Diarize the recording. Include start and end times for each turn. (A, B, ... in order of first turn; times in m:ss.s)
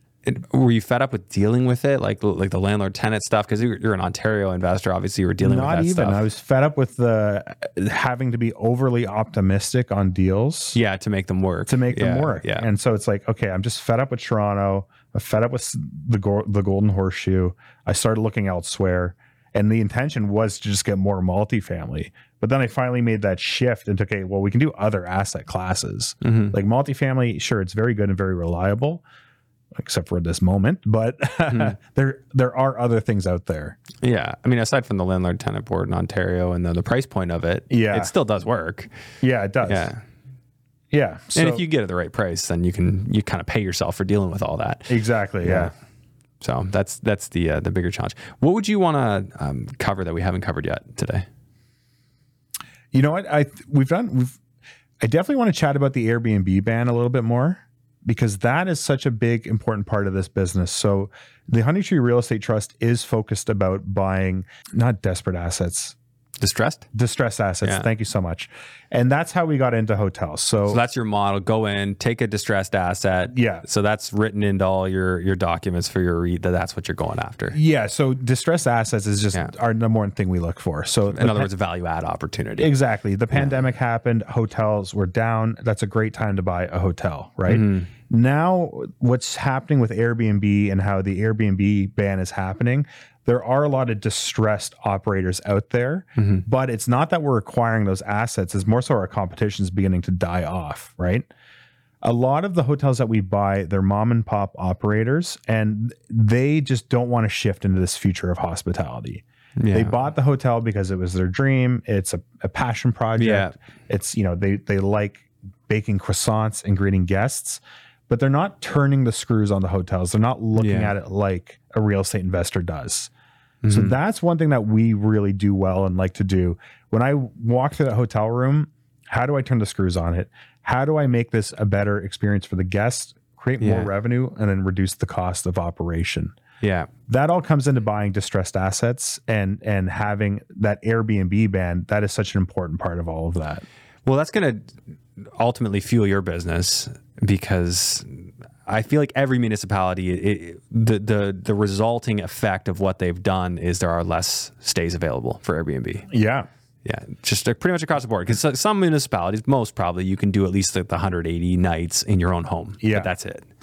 0:00.2-0:06.2 A
0:05.4-0:10.8 B
0:10.7-0:12.7 A
0:11.7-0:29.0 B
0:26.2-0:26.6 A
0:29.8-0:33.8 B
0:34.0-0:38.9 A
0:37.7-0:38.1 B
0:39.2-0:39.9 B
0:39.6-0:40.0 A
0:40.9-0:41.6 B
0:41.4-0:45.7 A
0:44.9-0:45.7 B
0:46.4-0:51.3 A
0:52.9-0:54.4 B
0:55.0-1:06.0 B
1:06.4-1:06.9 A
1:06.9-1:10.8 B
1:07.6-1:07.9 A
1:10.7-1:17.6 A
1:13.3-1:13.7 B
1:17.5-1:21.5 B
1:21.1-1:22.7 A
1:22.6-1:41.3 B
1:27.5-1:27.9 A
1:36.2-1:36.4 A
1:42.0-2:03.1 B
1:49.6-1:50.0 A
1:53.2-1:53.5 A
2:00.6-2:00.9 A
2:03.6-2:04.0 A
2:03.7-2:16.4 B
2:13.6-2:13.9 A
2:16.6-2:16.9 A
2:17.1-2:23.6 B
2:24.1-2:24.7 A
2:25.4-2:36.1 A
2:36.1-2:36.5 B
2:36.8-2:43.5 A
2:42.8-2:43.1 B